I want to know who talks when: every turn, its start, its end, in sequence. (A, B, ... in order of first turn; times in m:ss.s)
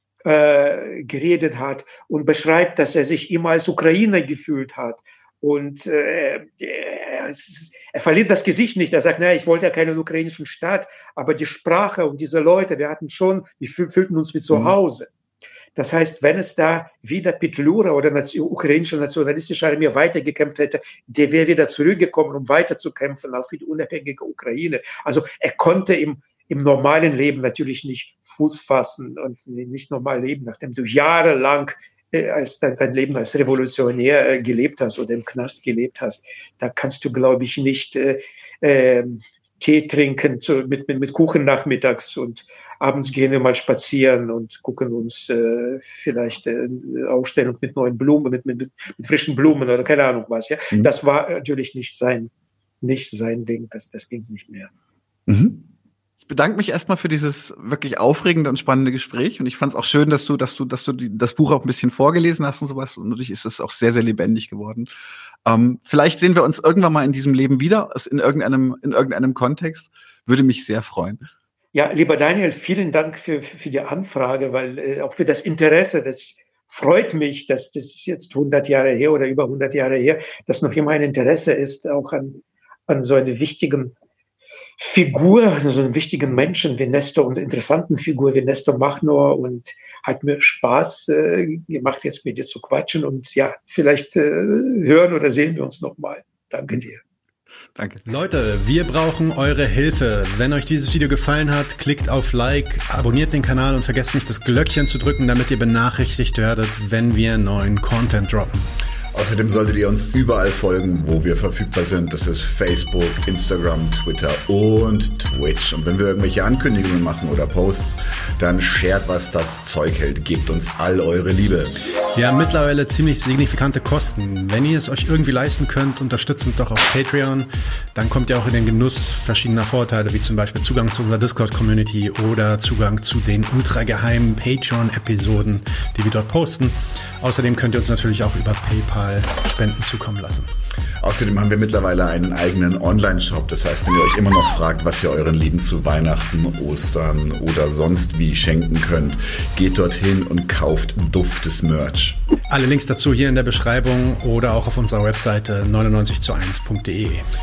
0:00.2-0:15.1 A
0:15.8-0:54.7 A
0:55.3-0:55.6 B
0:56.2-1:04.9 B
1:05.4-1:11.2 B
1:11.7-1:23.9 A
1:24.8-1:37.0 A
1:37.7-1:38.0 B
1:38.0-1:48.7 C
1:49.1-2:01.7 B
2:02.1-2:20.5 C
2:21.0-2:32.2 B
2:32.5-2:37.2 C